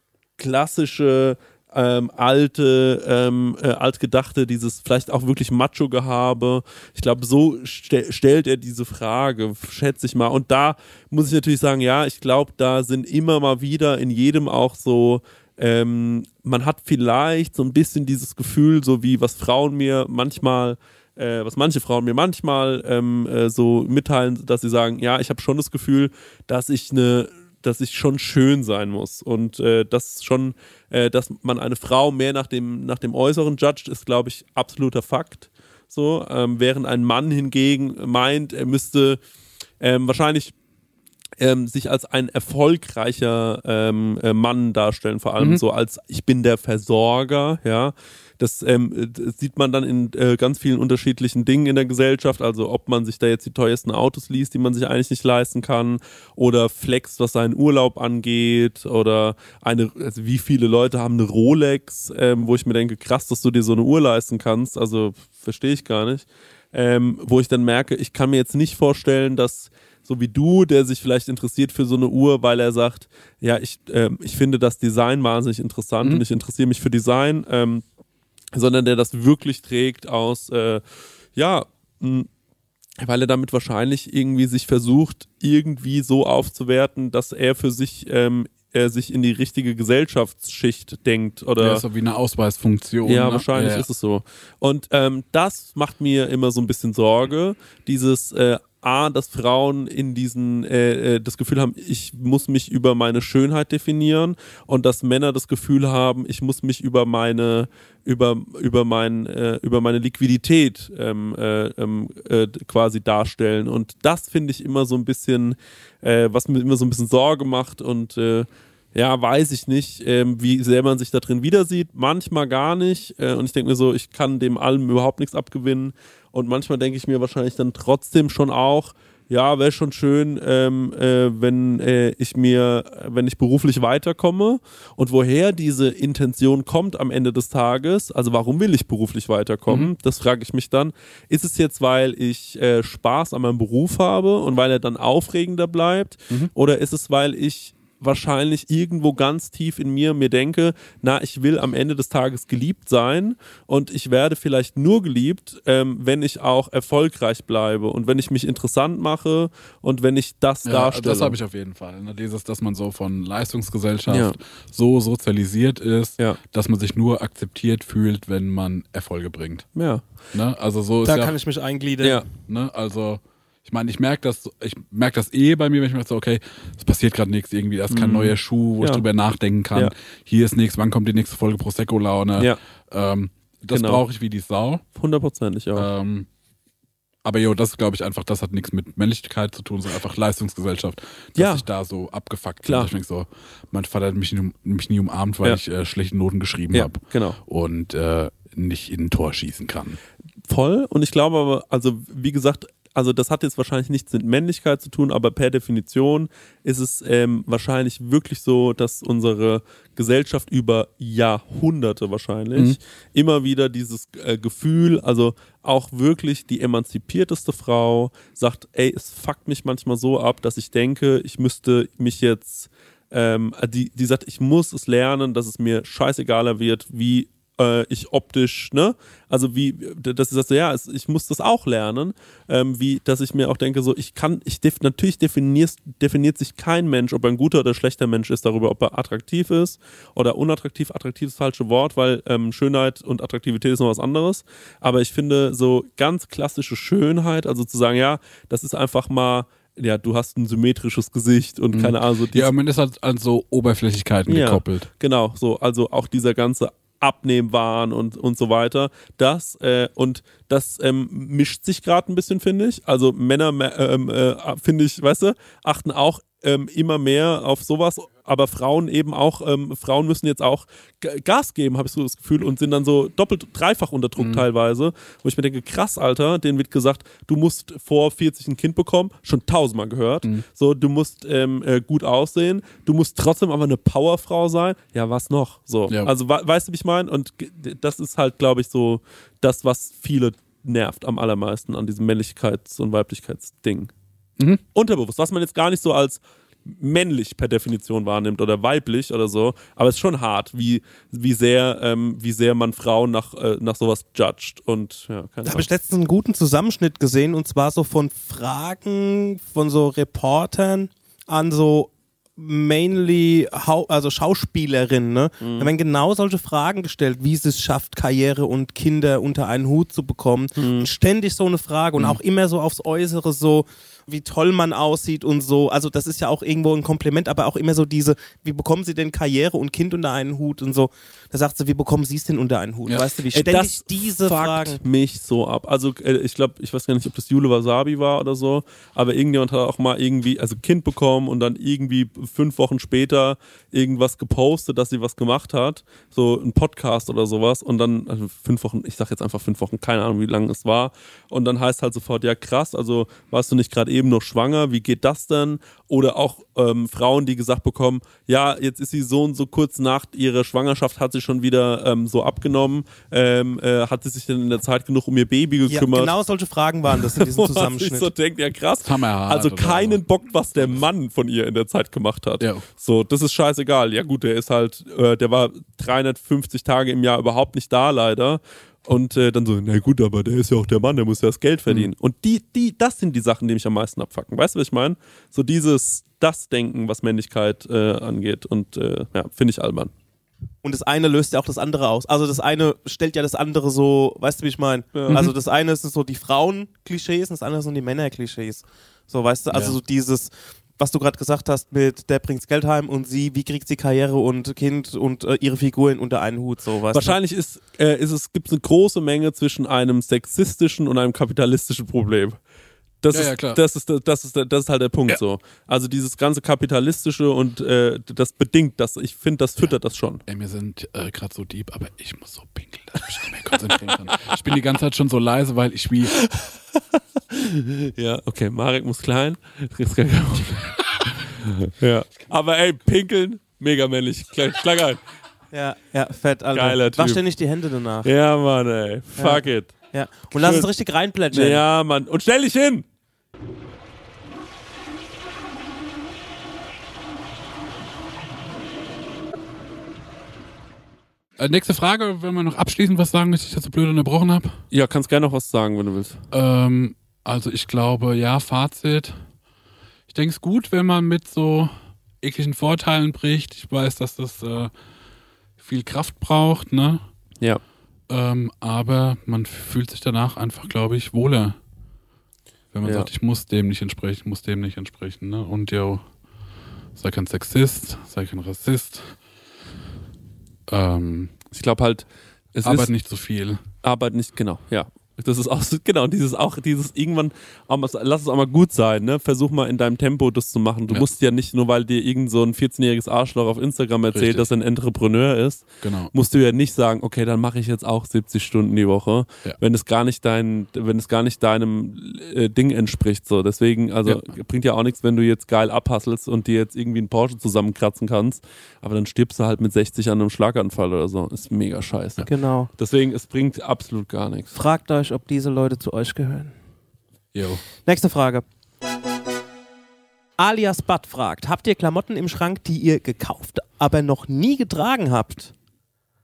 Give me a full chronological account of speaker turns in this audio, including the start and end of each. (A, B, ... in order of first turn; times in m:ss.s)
0:00.4-0:39.2 A
0:39.8-0:40.5 A
0:41.4-1:17.8 A
1:18.5-1:20.8 A
1:21.4-1:22.3 A
1:23.0-1:31.8 A
1:31.6-1:33.8 B
1:33.0-2:41.4 A
2:40.6-2:49.6 B
2:44.1-2:44.3 A
2:49.8-2:50.0 A
2:50.3-2:51.4 B
2:51.0-2:52.2 C
2:52.5-3:04.8 B
2:57.9-2:59.0 A
3:03.7-3:04.0 A
3:04.9-3:05.9 A
3:05.7-3:06.3 B
3:07.2-3:20.0 B
3:11.4-3:11.6 A
3:12.6-3:12.9 A
3:16.7-3:17.4 A
3:20.5-4:12.5 A
4:11.7-4:14.9 B
4:14.3-4:53.9 A
4:34.2-4:34.4 B
4:54.7-5:05.7 A
5:05.4-5:34.8 C
5:15.4-5:15.7 A
5:20.6-5:20.9 A
5:33.3-6:06.1 A
6:05.7-6:08.1 C
6:06.9-6:29.9 A
6:08.8-6:10.0 B
6:12.4-6:12.6 B
6:30.6-6:47.1 C
6:34.9-6:35.2 A
6:39.5-6:39.8 B
6:46.9-6:52.4 A
6:53.0-7:00.2 A
6:53.1-6:53.6 B
7:00.3-7:06.2 B
7:03.9-7:04.3 A
7:06.2-7:06.8 A
7:07.3-7:15.0 A
7:15.5-7:18.1 C
7:16.5-7:17.2 A
7:18.0-7:19.7 A
7:19.2-7:21.6 C
7:20.3-7:20.7 A
7:21.3-7:22.8 A
7:31.4-7:34.6 B
7:34.7-7:36.2 A
7:36.3-7:39.2 B
7:40.1-7:44.7 B
7:45.6-7:47.0 B
7:48.1-7:51.6 B
7:52.7-7:56.0 B
7:52.8-7:53.1 A
7:57.0-7:59.2 B
8:00.7-8:01.3 B
8:01.5-8:02.9 A
8:02.6-8:03.6 B
8:03.8-8:34.5 A
8:14.1-8:14.5 B
8:15.8-8:16.1 B
8:32.2-8:32.7 C
8:34.5-8:36.5 C
8:37.3-8:37.6 B
8:37.8-8:38.4 C
8:40.4-8:45.5 C